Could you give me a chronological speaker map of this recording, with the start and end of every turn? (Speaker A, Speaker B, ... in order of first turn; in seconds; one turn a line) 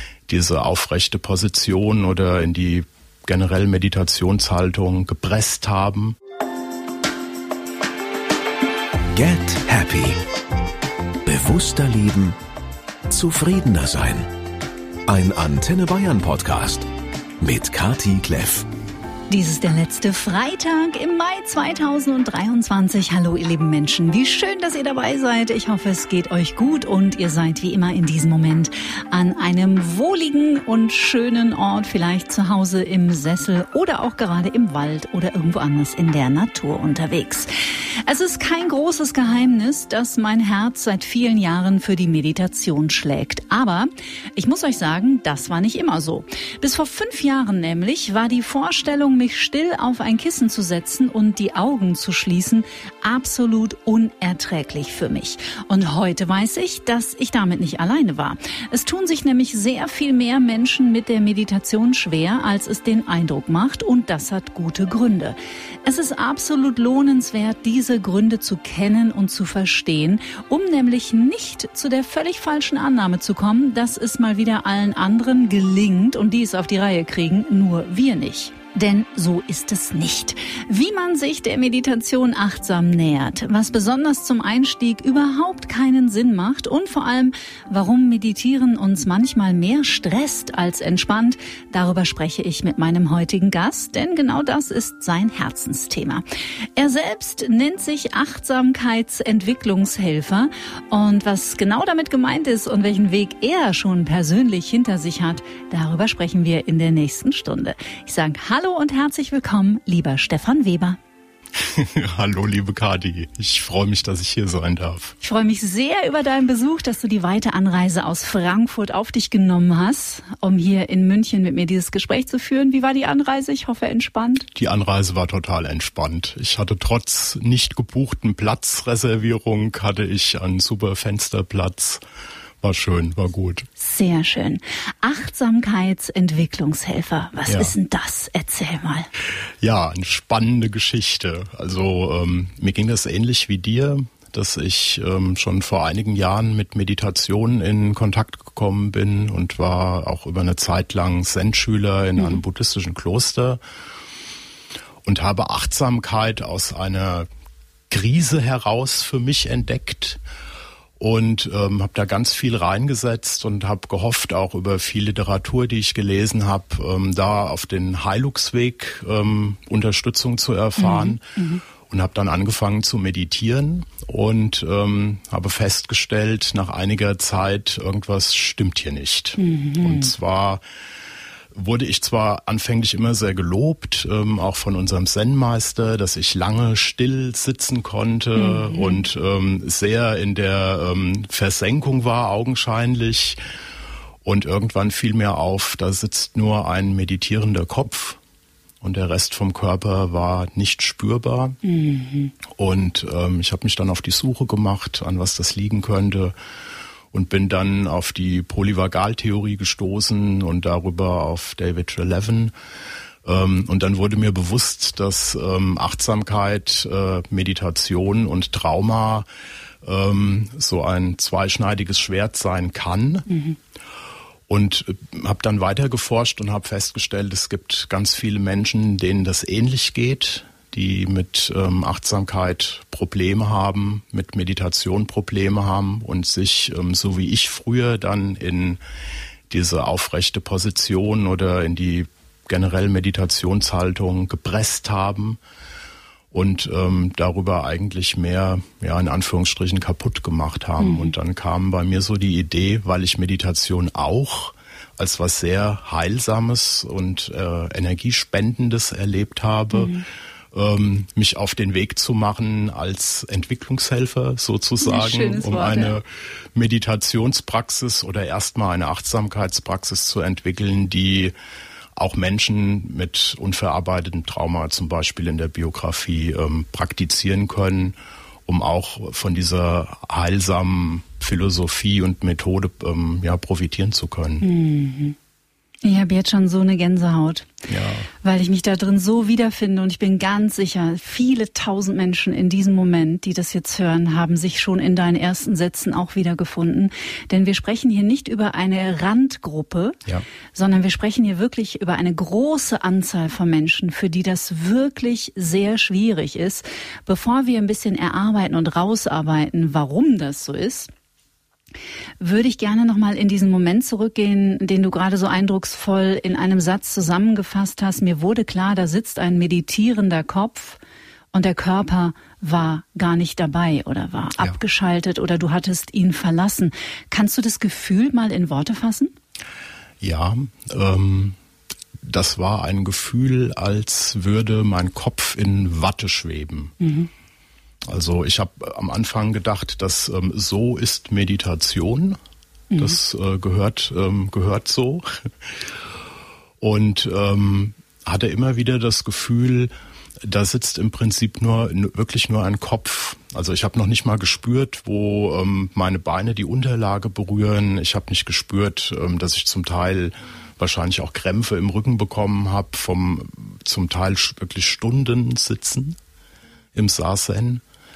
Speaker A: 0.3-6.2
Speaker B: 9.1-10.2
Speaker B: 11.2-12.4
Speaker B: 13.1-14.3
Speaker B: 15.1-16.9
Speaker B: 17.4-18.7
Speaker C: 19.3-96.2
Speaker C: 96.8-111.0
Speaker A: 111.6-115.2
Speaker C: 115.2-124.5
Speaker A: 124.5-132.0
Speaker A: 132.6-133.7
Speaker C: 133.8-139.1
Speaker A: 137.5-137.7
Speaker A: 139.6-153.6
Speaker A: 155.0-157.3
Speaker A: 157.9-160.2
Speaker A: 161.0-171.2
Speaker C: 170.8-171.6
Speaker A: 171.8-180.6
Speaker C: 179.4-180.1
Speaker A: 181.5-193.4
Speaker C: 188.4-189.0
Speaker A: 194.2-198.2
Speaker A: 198.8-201.6
Speaker C: 201.7-202.3
Speaker A: 202.5-206.3
Speaker A: 207.1-212.5
Speaker A: 213.2-219.3
Speaker A: 219.8-223.3
Speaker A: 224.5-238.8
Speaker A: 239.5-245.4
Speaker A: 246.3-271.3
Speaker C: 250.8-251.1
Speaker C: 259.7-260.0
Speaker C: 264.8-265.9
Speaker A: 271.9-284.5
Speaker C: 284.4-285.1
Speaker C: 285.8-287.5
Speaker A: 287.7-288.1
Speaker C: 288.2-300.0
Speaker C: 300.5-310.9
Speaker C: 312.2-320.8
Speaker C: 321.3-329.1
Speaker A: 330.0-331.4
Speaker A: 332.1-336.8
Speaker C: 336.8-337.1
Speaker A: 337.9-342.2
Speaker C: 342.7-343.0
Speaker A: 342.7-345.3
Speaker A: 346.6-349.7
Speaker A: 350.2-366.0
Speaker A: 366.7-367.6